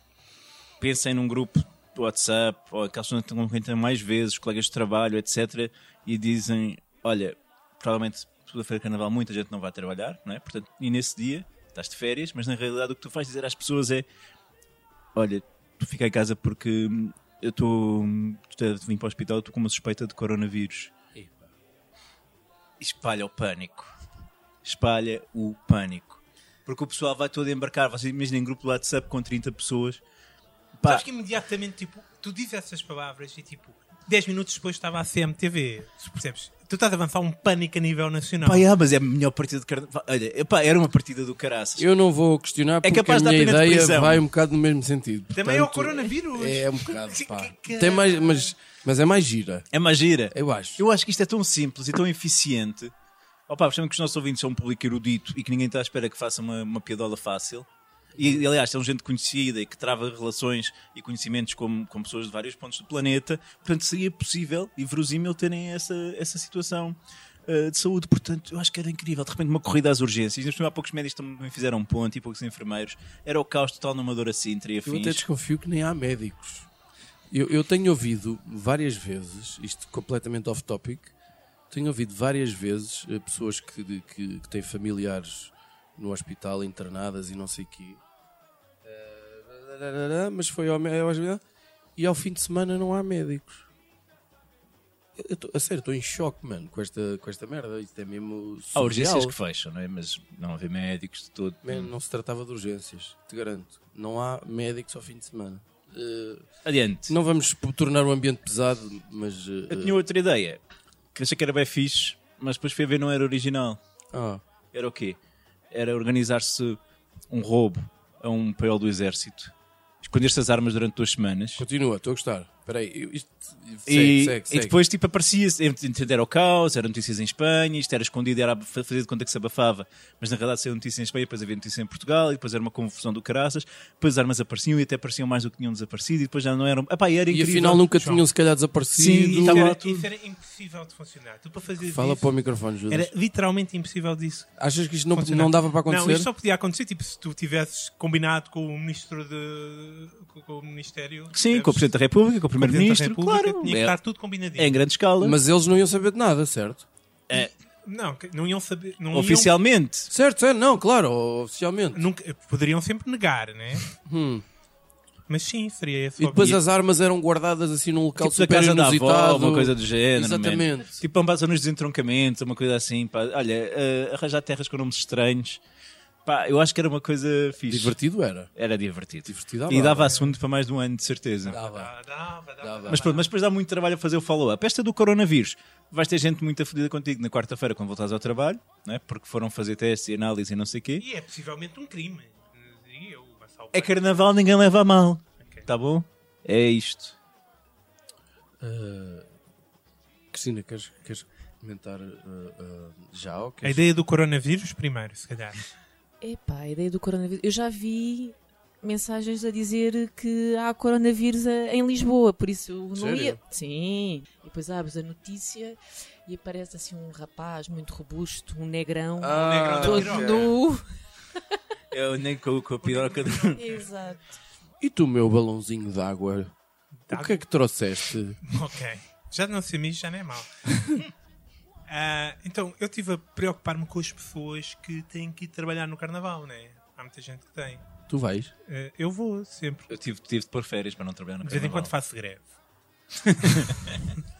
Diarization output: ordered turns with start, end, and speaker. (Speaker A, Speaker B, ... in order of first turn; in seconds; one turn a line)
Speaker A: 0.8-14.1
Speaker A: 15.2-20.9
Speaker B: 21.1-21.5
Speaker A: 22.8-24.0
Speaker A: 24.6-30.0
Speaker A: 30.8-31.1
Speaker C: 30.9-38.7
Speaker A: 38.4-41.9
Speaker B: 41.8-49.7
Speaker A: 42.8-44.2
Speaker C: 45.3-48.5
Speaker A: 49.7-52.9
Speaker B: 50.3-50.8
Speaker A: 53.5-75.2
Speaker B: 58.1-58.5
Speaker B: 74.8-76.7
Speaker B: 77.3-81.1
Speaker B: 81.7-88.0
Speaker B: 88.8-91.4
Speaker B: 92.0-93.7
Speaker B: 95.2-99.3
Speaker A: 98.8-101.9
Speaker B: 101.6-106.5
Speaker A: 106.6-107.1
Speaker B: 107.1-110.0
Speaker A: 109.7-110.6
Speaker A: 111.1-113.8
Speaker B: 114.1-114.4
Speaker A: 114.7-115.2
Speaker A: 115.7-116.8
Speaker A: 117.3-121.6
Speaker B: 121.6-124.8
Speaker A: 123.9-137.9
Speaker B: 137.3-139.7
Speaker C: 137.9-138.2
Speaker A: 139.0-140.1
Speaker C: 139.1-142.2
Speaker B: 141.8-143.1
Speaker C: 142.9-144.5
Speaker B: 144.6-146.3
Speaker C: 145.1-151.9
Speaker A: 151.3-154.0
Speaker C: 152.6-154.8
Speaker A: 154.6-155.4
Speaker B: 155.2-156.9
Speaker C: 157.8-159.5
Speaker A: 159.1-160.1
Speaker B: 160.1-162.1
Speaker C: 161.9-163.9
Speaker B: 164.1-164.4
Speaker C: 165.3-166.6
Speaker B: 166.2-171.0
Speaker A: 168.2-175.6
Speaker A: 176.2-178.0
Speaker B: 177.7-178.5
Speaker A: 178.6-181.6
Speaker B: 179.2-180.3
Speaker C: 181.4-183.3
Speaker B: 181.5-181.9
Speaker B: 182.6-183.1
Speaker A: 182.9-191.1
Speaker C: 191.0-194.2
Speaker A: 193.7-197.1
Speaker B: 198.6-199.3
Speaker B: 200.3-203.8
Speaker C: 203.6-205.7
Speaker D: 206.2-220.9
Speaker B: 212.9-213.4
Speaker B: 219.2-220.5
Speaker C: 219.3-220.5
Speaker A: 221.9-223.8
Speaker C: 222.8-223.9
Speaker D: 223.5-224.2
Speaker B: 224.8-226.5
Speaker C: 227.1-227.4
Speaker B: 227.1-228.4
Speaker C: 228.4-231.1
Speaker C: 231.9-237.9
Speaker B: 238.1-238.5
Speaker C: 238.7-239.9
Speaker A: 239.9-241.9
Speaker C: 241.4-242.5
Speaker A: 243.2-244.0